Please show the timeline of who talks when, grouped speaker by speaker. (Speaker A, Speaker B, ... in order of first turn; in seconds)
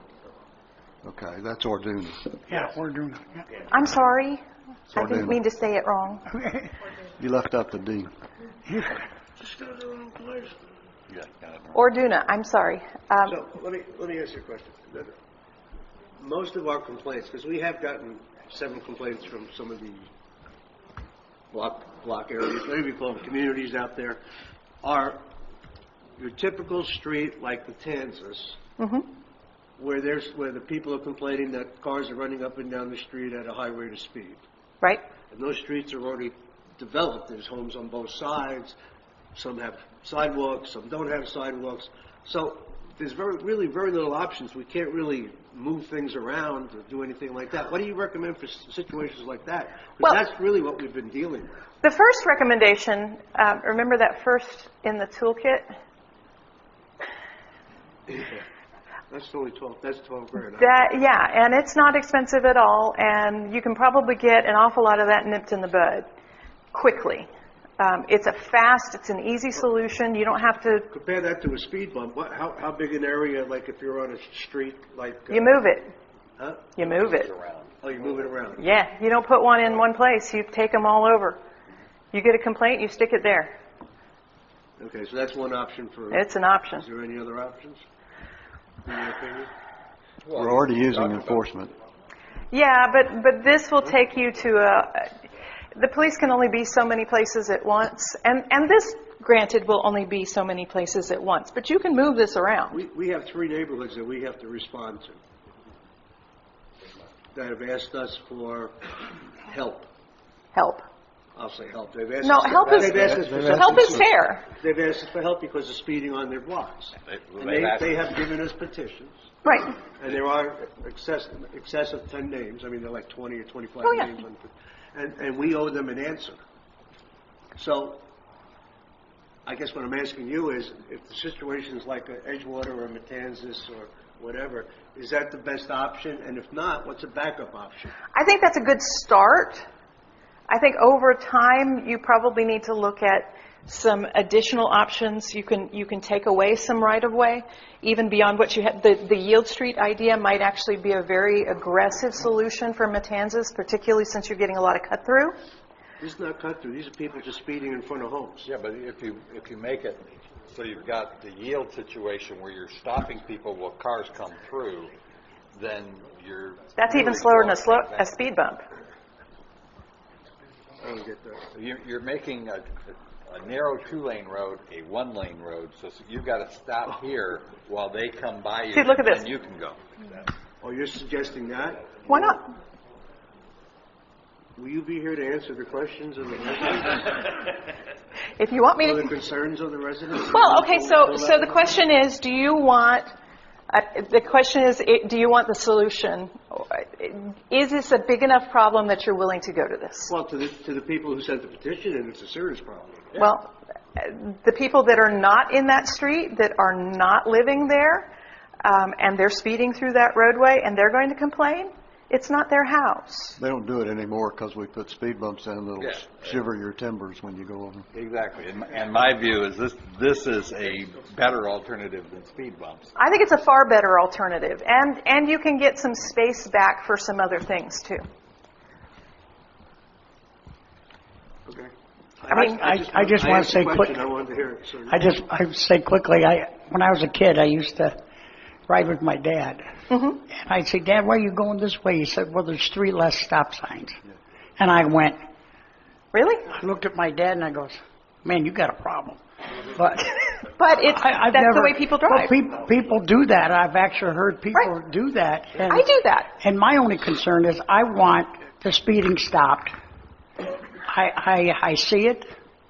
Speaker A: 1.0-2.3, 4.9-5.4, 7.2-8.1, 90.3-91.7, 113.1-113.7, 213.4-217.9
Speaker B: 2.4-3.4, 6.3-6.7, 8.7-9.0, 232.3-234.0, 234.9-237.9, 238.7-239.6, 240.3-244.0, 244.6-245.2, 246.5-249.2, 249.7-250.4, 250.9-255.9, 256.4-259.7, 260.9-262.2
Speaker C: 3.7-4.4, 4.9-6.2, 11.7-13.4, 28.8-29.1, 51.8-55.7, 60.5-66.1, 66.7-67.3, 67.8-70.9, 75.3-75.9, 76.8-77.3, 78.6-81.4, 82.1-83.5, 86.1-86.8, 92.5-95.1, 95.7-102.8, 110.5-110.8, 112.2-114.5, 119.4-119.7, 123.8-124.1, 138.1-139.7, 140.5-155.4, 166.8-168.6, 178.7-179.3, 182.1-182.4, 188.4-189.1, 190.3-193.1, 193.7-200.1, 203.1-208.1, 208.6-213.4, 222.9-228.0, 232.3-232.6, 239.9-240.2, 246.1-246.5, 250.6-252.3, 255.7-256.3
Speaker D: 9.4-10.5, 13.2-15.1, 16.2-20.1, 21.5-24.2, 24.8-25.2, 26.2-28.6, 29.8-34.4, 35.3-38.7, 39.3-51.6, 58.1-58.4, 59.1-60.8, 70.9-75.6, 76.4-76.7, 77.8-78.6, 84.8-87.8, 88.8-89.5, 102.7-105.2, 107.3-108.8, 109.5-109.9, 111.3-126.4, 127.5-128.0, 129.4-137.9, 156.0-158.5, 170.8-171.4, 180.6-182.4, 184.6-187.2, 188.8-191.7, 200.1-203.3, 231.5-235.0
Speaker E: 11.1-11.8, 76.8-77.9, 90.2-91.5, 117.0-118.1, 158.4-164.9, 165.5-168.1, 171.5-179.8, 215.8-216.4, 217.9-222.9